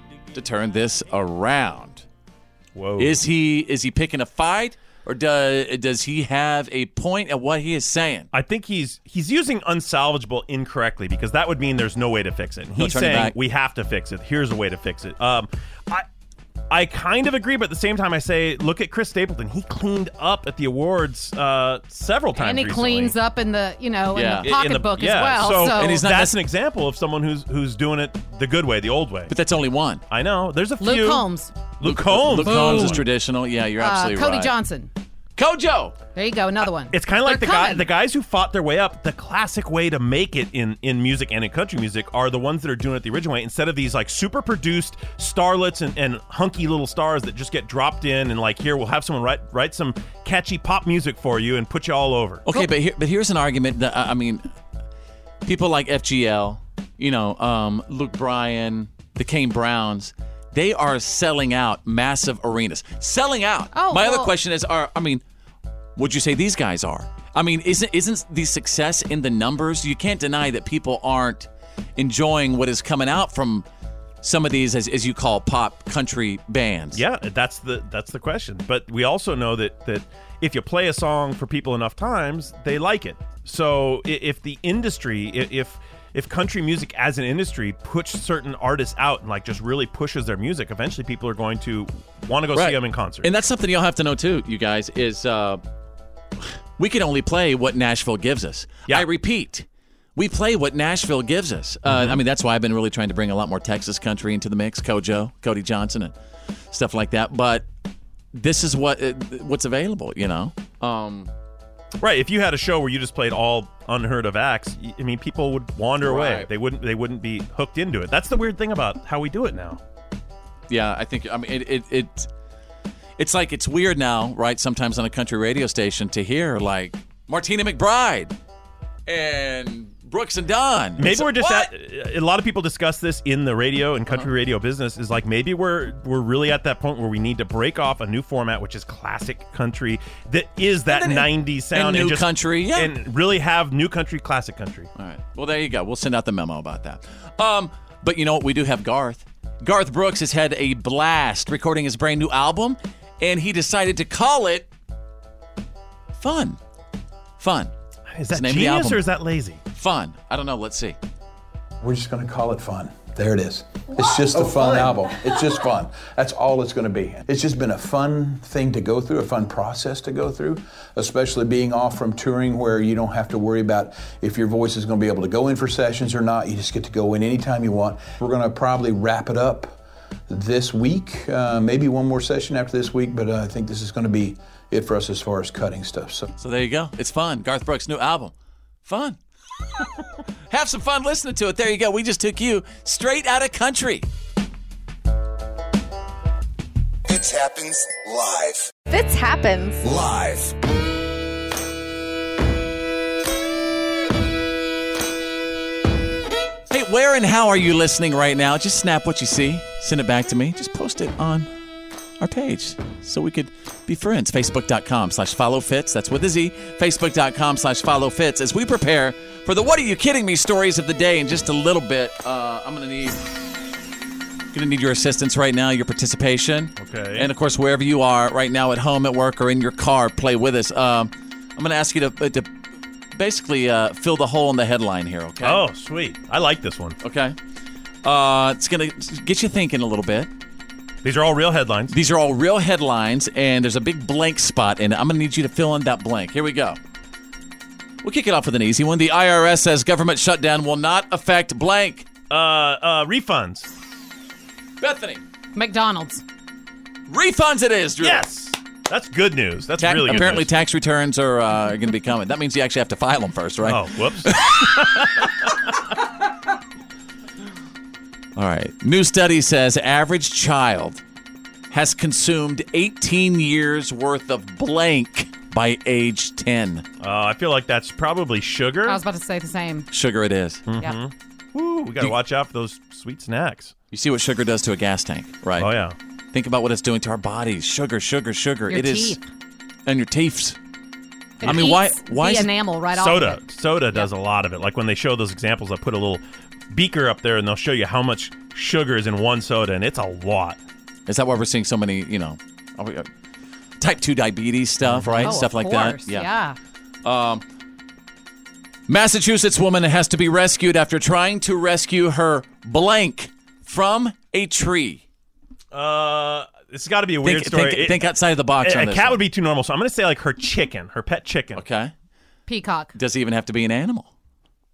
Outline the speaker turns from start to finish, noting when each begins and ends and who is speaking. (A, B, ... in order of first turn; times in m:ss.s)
0:00.3-0:02.0 A
0:02.8-0:03.2 B
0:03.0-0:08.3 A
0:08.3-0:16.0 B
0:12.8-0:13.4 A
0:16.7-0:23.2 B
0:22.4-0:26.0 C
0:24.1-0:24.5 A
0:24.4-0:29.3 B
0:25.8-0:26.4 A
0:29.3-0:30.0 A
0:30.1-0:31.3 B
0:30.8-0:31.5 C
0:31.8-0:33.0 B
0:31.8-0:34.5 A
0:32.4-0:33.0 C
0:33.8-0:34.9 C
0:35.4-0:36.0 A
0:36.2-0:37.9 C
0:36.9-0:52.5 B
0:52.5-0:54.5 A
0:55.4-1:05.2 A
1:03.7-1:04.3 C
1:06.0-1:13.7 A
1:14.2-1:17.0 A
1:16.9-1:33.3 B
1:32.6-1:35.6 A
1:36.8-1:46.1 A
1:41.9-1:42.2 B
1:46.7-1:47.6 A
1:48.3-1:51.3 A
1:52.0-1:59.8 B
1:56.0-1:56.5 A
2:00.7-2:02.3 A
2:03.2-2:08.3 A
2:09.1-2:11.7 A
2:11.0-2:24.9 B
2:20.9-2:22.9 A
2:25.0-2:34.7 A
2:36.2-2:36.6 A
2:37.4-2:37.7 A
2:38.1-2:39.6 B
2:38.3-2:39.0 A
2:39.7-2:41.0 A
2:41.8-3:06.3 D
3:06.4-3:08.3 A
3:08.8-3:09.2 A
3:10.5-3:14.1 A
3:17.1-3:18.7 E
3:18.9-3:19.8 C
3:19.8-3:20.5 E
3:26.7-3:31.5 A
3:32.2-3:43.2 A
3:44.5-3:52.5 A
3:46.8-3:47.3 B
3:53.1-3:55.6 A
3:55.4-3:57.0 B
3:57.0-3:57.4 A
3:58.0-4:00.3 A
4:01.0-4:02.0 B
4:01.9-4:06.8 A
4:08.0-4:12.1 A
4:12.3-4:13.7 B
4:14.8-4:15.2 A
4:15.6-4:16.2 C
4:17.1-4:18.2 A
4:18.0-4:20.5 B
4:19.8-4:25.2 A
4:23.6-4:25.5 B
4:28.4-4:31.0 A
4:31.7-4:36.8 A
4:37.0-4:39.0 B
4:38.9-4:39.9 C
4:39.9-4:40.6 A
4:40.7-4:43.7 B
4:43.9-4:45.7 A
4:45.6-4:46.0 B
4:46.3-4:49.2 A
4:48.7-4:49.2 C
4:49.9-4:50.6 A
4:51.4-4:52.5 A
4:51.4-4:53.4 C
4:51.4-4:51.7 B
4:52.9-5:00.6 B
5:01.1-5:03.1 A
5:03.8-5:06.3 A
5:04.8-5:05.4 B
5:05.2-5:06.6 C
5:07.0-5:07.4 A
5:08.9-5:15.0 A
5:15.7-5:18.1 B
5:17.2-5:19.2 A
5:18.6-5:21.6 B
5:21.6-5:21.9 A
5:22.5-5:23.0 C
5:23.0-5:24.1 A